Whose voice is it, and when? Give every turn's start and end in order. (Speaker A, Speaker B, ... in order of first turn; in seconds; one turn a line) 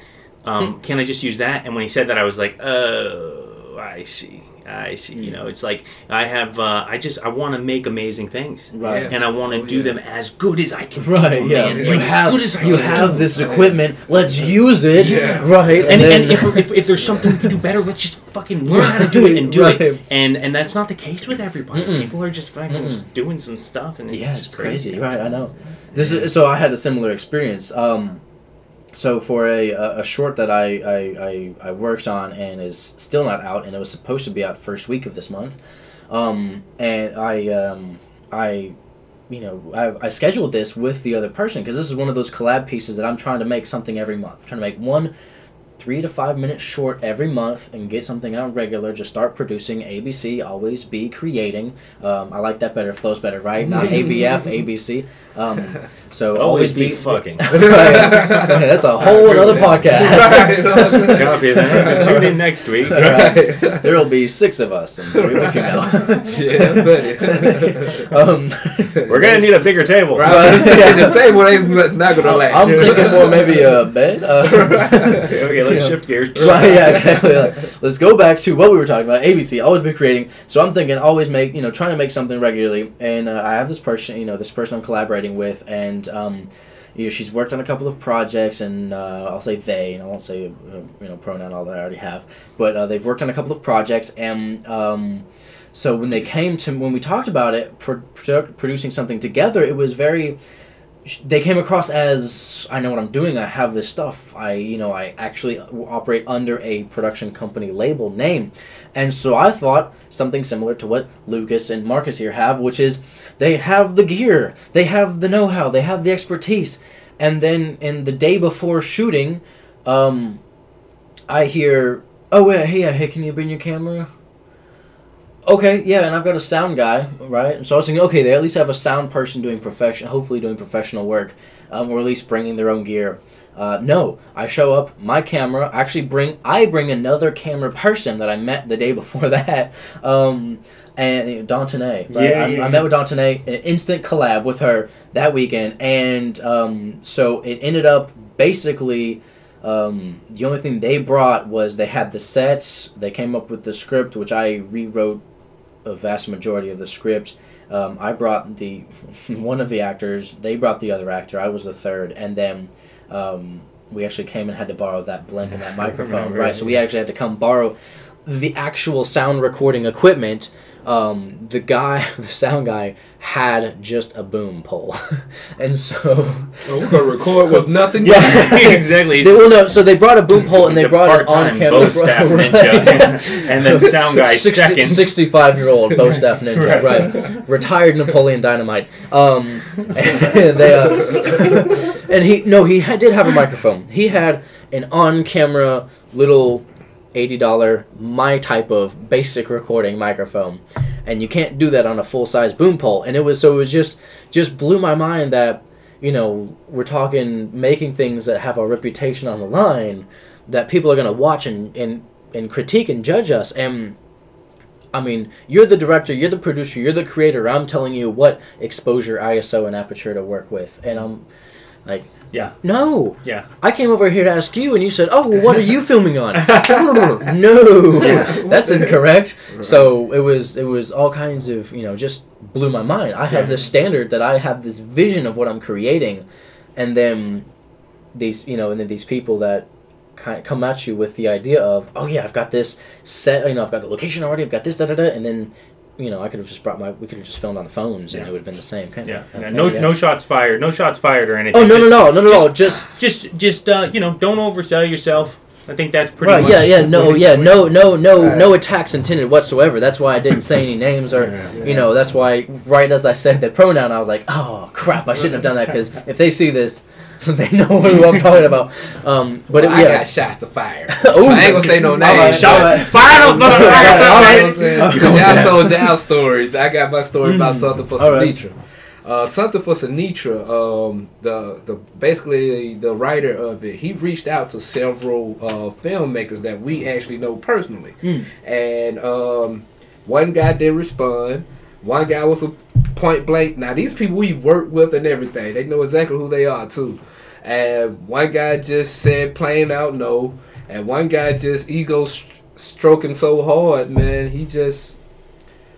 Speaker A: 0.4-13.3
Speaker B: 8.7-9.1
Speaker C: 8.8-9.9
Speaker B: 11.0-16.7
Speaker C: 11.5-13.9
Speaker C: 14.5-16.2
Speaker A: 15.0-25.2
Speaker B: 18.7-20.0
Speaker B: 21.7-22.2
Speaker B: 22.7-23.1
Speaker B: 24.1-28.2
Speaker C: 25.9-26.2
Speaker B: 28.9-35.6
Speaker B: 36.1-38.7
Speaker B: 39.3-45.1
Speaker B: 45.8-62.3
Speaker C: 53.6-54.2
Speaker A: 56.3-57.7
Speaker C: 57.5-62.3
Speaker A: 61.0-63.4
Speaker B: 62.9-69.4
Speaker C: 62.9-64.0
Speaker C: 65.1-68.1
Speaker C: 69.0-69.2
Speaker A: 69.1-71.1
Speaker C: 70.1-73.7
Speaker B: 70.2-71.4
Speaker B: 72.2-100.4
Speaker A: 72.5-73.2
Speaker C: 74.4-75.3
Speaker A: 75.2-77.2
Speaker C: 76.6-77.4
Speaker B: 101.0-120.4
Speaker B: 121.3-124.1
Speaker B: 125.4-155.2
Speaker A: 142.1-142.9
Speaker B: 155.8-213.9
Speaker A: 165.8-166.8
Speaker C: 176.6-178.9
Speaker A: 178.0-179.6
Speaker A: 180.4-185.2
Speaker A: 186.5-187.4
Speaker C: 190.9-191.7
Speaker B: 214.9-221.2
Speaker B: 222.6-236.2
Speaker C: 226.4-227.3
Speaker C: 227.9-229.9
Speaker A: 233.3-233.6
Speaker B: 236.8-237.5
Speaker B: 238.1-249.9
Speaker A: 249.0-256.8
Speaker B: 251.5-252.9
Speaker B: 256.2-270.1
Speaker C: 256.3-258.5
Speaker A: 261.1-261.5
Speaker C: 261.5-261.9
Speaker A: 267.9-268.5
Speaker C: 269.5-304.9
Speaker B: 270.9-275.9
Speaker A: 272.0-275.7
Speaker B: 277.2-278.4
Speaker B: 288.0-288.3